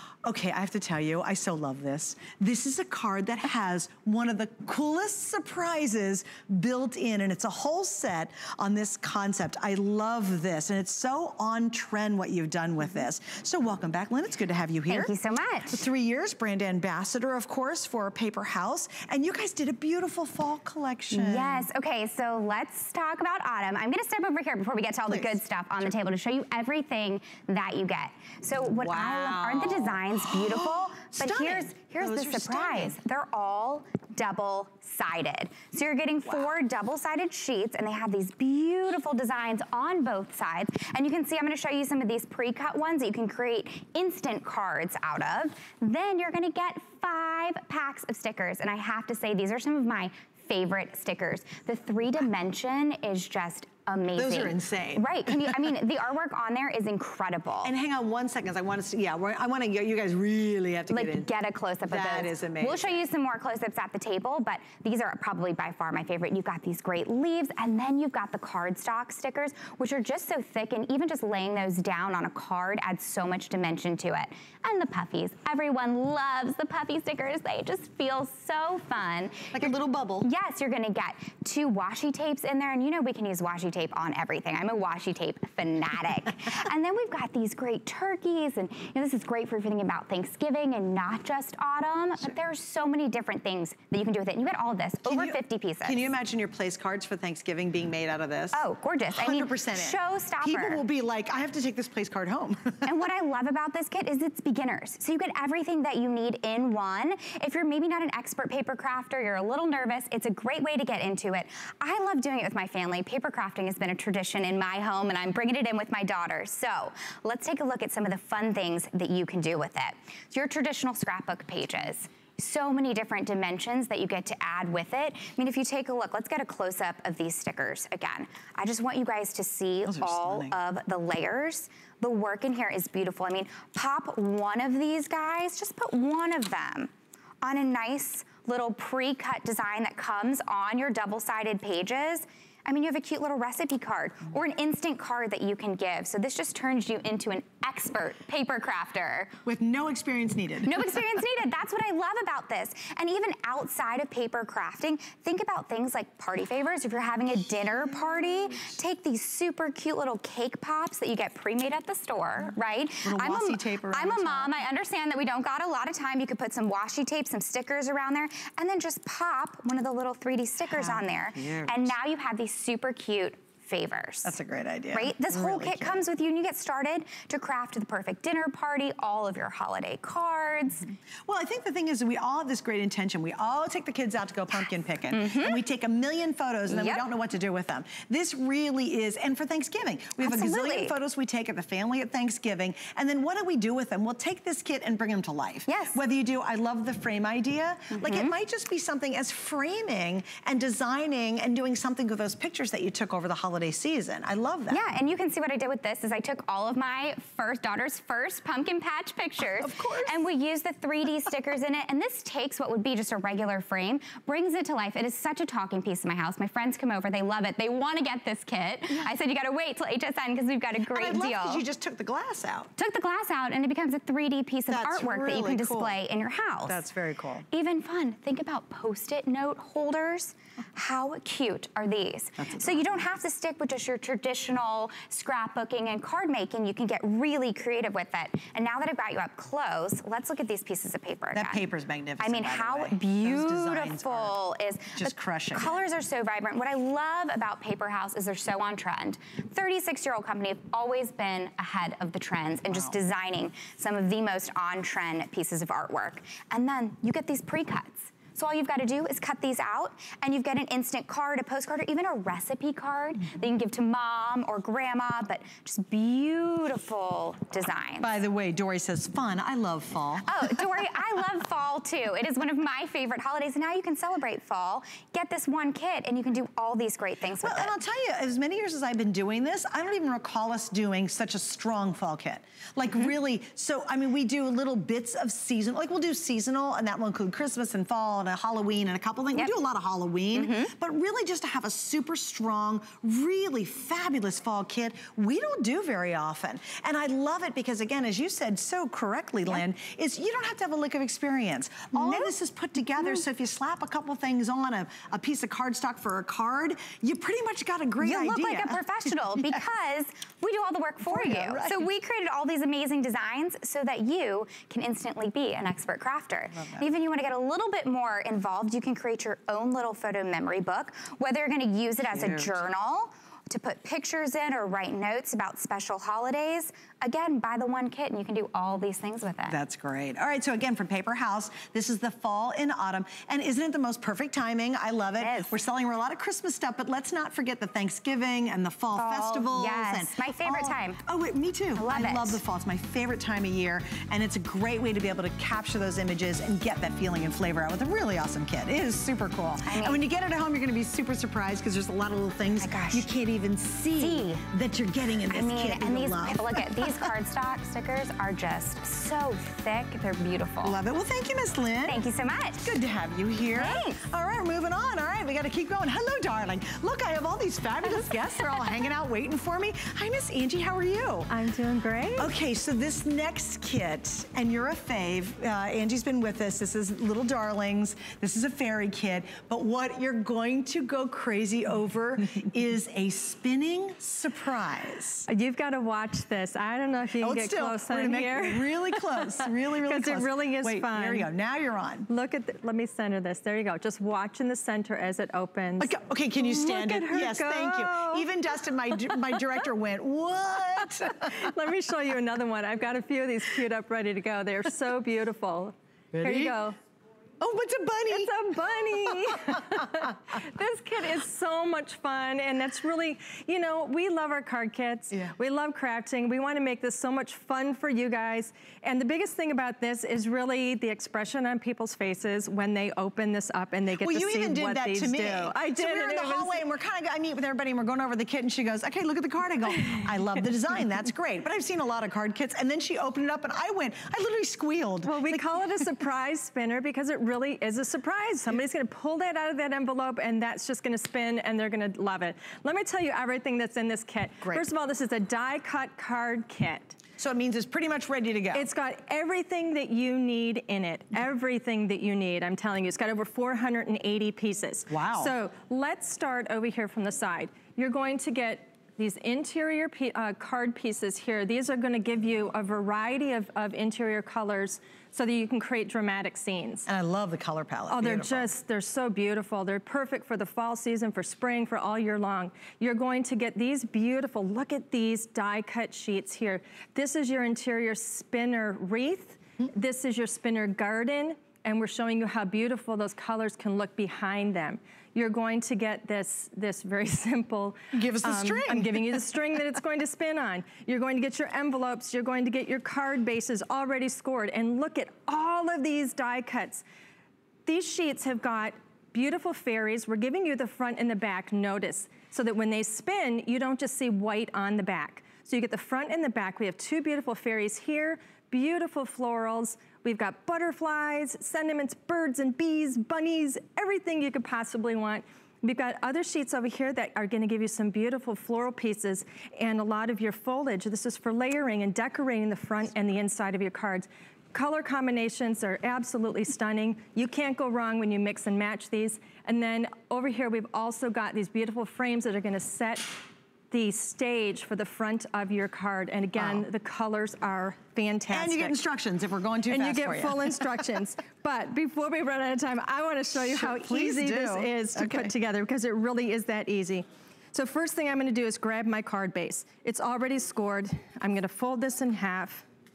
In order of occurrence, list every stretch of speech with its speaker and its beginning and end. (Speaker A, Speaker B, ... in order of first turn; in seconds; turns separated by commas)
Speaker A: 0.2-15.1, Speaker B: 14.9-15.8, Speaker A: 15.7-21.7, Speaker B: 21.1-57.7, Speaker A: 25.1-25.9, Speaker A: 28.8-33.0, Speaker A: 54.1-55.6, Speaker A: 57.6-61.3, Speaker B: 60.9-79.7, Speaker A: 61.9-63.0, Speaker A: 79.5-80.3, Speaker B: 80.2-96.1, Speaker A: 95.0-103.0, Speaker B: 98.5-100.8, Speaker B: 102.8-136.9, Speaker A: 129.8-130.6, Speaker B: 137.4-149.3, Speaker A: 149.4-150.8, Speaker B: 150.6-174.4, Speaker A: 163.0-164.6, Speaker A: 170.7-171.9, Speaker A: 174.2-176.0, Speaker B: 174.9-180.9, Speaker A: 181.2-204.8, Speaker B: 185.1-185.6, Speaker B: 186.7-187.1, Speaker B: 190.2-191.0, Speaker B: 195.7-196.0, Speaker B: 197.9-198.3, Speaker B: 204.7-221.6, Speaker A: 209.6-210.2, Speaker A: 220.9-222.7, Speaker B: 222.8-226.8, Speaker A: 224.7-226.0, Speaker A: 226.7-227.4, Speaker B: 227.5-241.6, Speaker A: 232.5-233.0, Speaker A: 241.3-244.3, Speaker B: 242.2-268.1, Speaker A: 244.9-245.8, Speaker A: 252.7-252.9, Speaker A: 268.0-270.5, Speaker B: 270.2-277.7, Speaker A: 277.4-308.8, Speaker B: 290.3-290.7, Speaker B: 301.9-302.3, Speaker B: 308.0-329.6, Speaker A: 309.3-309.6, Speaker A: 311.0-311.8, Speaker A: 316.6-316.9, Speaker A: 322.1-322.6, Speaker A: 329.5-357.1, Speaker B: 335.2-335.5, Speaker B: 338.9-341.0, Speaker B: 341.7-342.4, Speaker B: 349.6-350.0, Speaker B: 352.6-353.1, Speaker B: 354.0-354.4, Speaker B: 355.3-360.8, Speaker A: 360.6-371.3, Speaker B: 361.9-362.7, Speaker B: 363.5-364.0, Speaker C: 371.3-372.3, Speaker A: 372.2-385.2, Speaker C: 385.3-391.3, Speaker A: 387.2-392.1, Speaker C: 392.1-398.2, Speaker A: 395.8-401.4, Speaker C: 401.3-406.8, Speaker A: 406.1-406.6, Speaker A: 407.4-408.3, Speaker C: 408.1-426.6, Speaker A: 424.0-435.4, Speaker C: 435.0-447.0, Speaker A: 444.4-444.7, Speaker A: 447.2-448.7, Speaker C: 448.5-466.9, Speaker A: 454.9-455.3, Speaker A: 466.9-468.5, Speaker C: 467.9-496.8, Speaker A: 487.9-489.1, Speaker C: 497.6-533.1, Speaker C: 533.7-538.8, Speaker A: 536.4-536.6, Speaker A: 538.3-540.6, Speaker C: 539.7-552.6, Speaker A: 543.4-545.3